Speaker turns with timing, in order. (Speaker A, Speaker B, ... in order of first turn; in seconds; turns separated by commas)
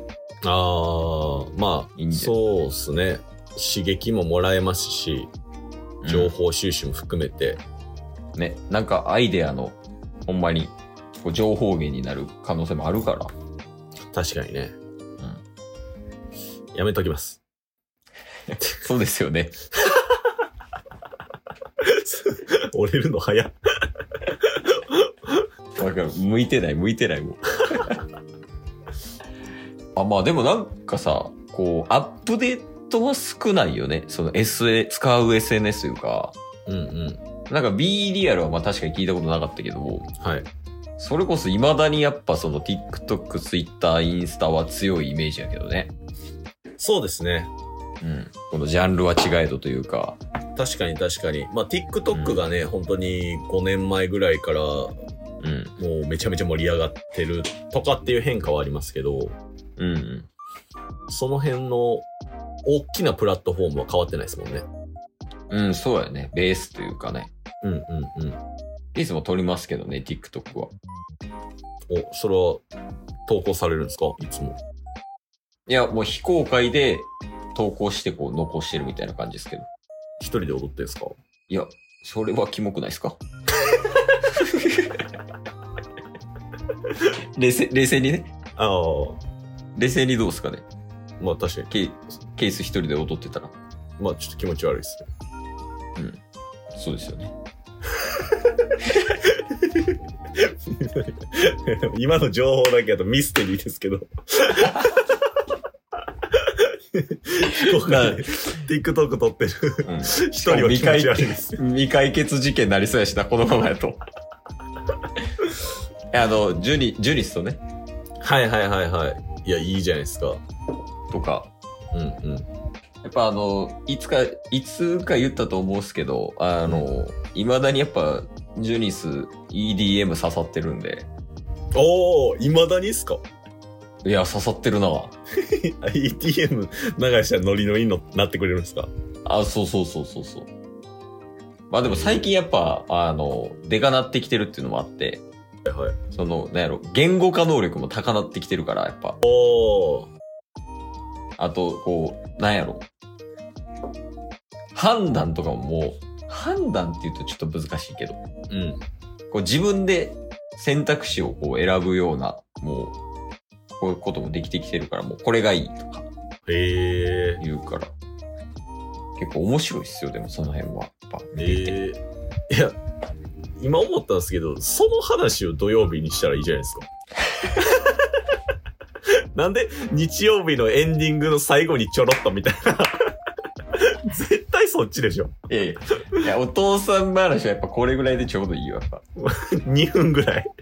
Speaker A: 0.4-5.3, Speaker B: 2.0-2.3, Speaker B: 6.0-6.3, Speaker A: 6.1-7.6, Speaker B: 8.3-13.3, Speaker A: 14.1-14.8, Speaker A: 16.7-17.4, Speaker B: 18.5-19.6, Speaker A: 22.0-23.5, Speaker B: 25.8-27.8, Speaker B: 30.0-36.4, Speaker A: 36.7-37.2, Speaker B: 37.5-40.1, Speaker A: 40.2-40.5, Speaker B: 41.0-45.9, Speaker A: 46.8-47.5, Speaker B: 48.0-50.2, Speaker A: 50.6-54.9, Speaker B: 52.1-52.4, Speaker B: 55.4-55.8, Speaker A: 55.8-59.4, Speaker B: 59.8-60.3, Speaker A: 61.1-62.1, Speaker A: 62.7-64.7, Speaker B: 65.5-67.3, Speaker A: 67.6-68.4, Speaker B: 68.9-70.7, Speaker A: 71.9-72.6, Speaker A: 73.3-74.6, Speaker B: 75.7-79.7, Speaker A: 80.2-81.1, Speaker B: 81.5-83.2, Speaker B: 84.4-84.9, Speaker B: 87.4-88.3, Speaker A: 88.6-89.2, Speaker B: 89.8-90.7, Speaker A: 91.2-91.7, Speaker B: 91.7-93.5, Speaker A: 94.0-95.1, Speaker B: 96.7-97.3, Speaker A: 100.7-105.0, Speaker A: 107.0-111.6, Speaker B: 107.6-108.2, Speaker B: 109.8-114.0, Speaker B: 116.1-117.6, Speaker A: 118.2-120.4, Speaker B: 121.1-121.5, Speaker A: 121.9-122.5, Speaker B: 123.0-131.1, Speaker A: 131.7-133.2, Speaker B: 134.0-135.2, Speaker A: 135.8-138.9, Speaker B: 139.3-140.5, Speaker B: 141.7-145.2, Speaker A: 141.8-142.3, Speaker A: 145.7-146.0, Speaker B: 146.1-149.2, Speaker A: 149.2-150.1, Speaker B: 151.4-152.9, Speaker B: 154.7-158.2, Speaker A: 158.5-158.8, Speaker B: 159.3-163.0, Speaker B: 163.8-166.1, Speaker A: 166.5-167.4, Speaker B: 167.4-167.9, Speaker B: 169.2-171.8, Speaker A: 171.3-172.8, Speaker A: 173.6-176.9, Speaker A: 179.3-183.0, Speaker A: 184.0-185.3, Speaker B: 185.5-189.0, Speaker A: 189.2-190.5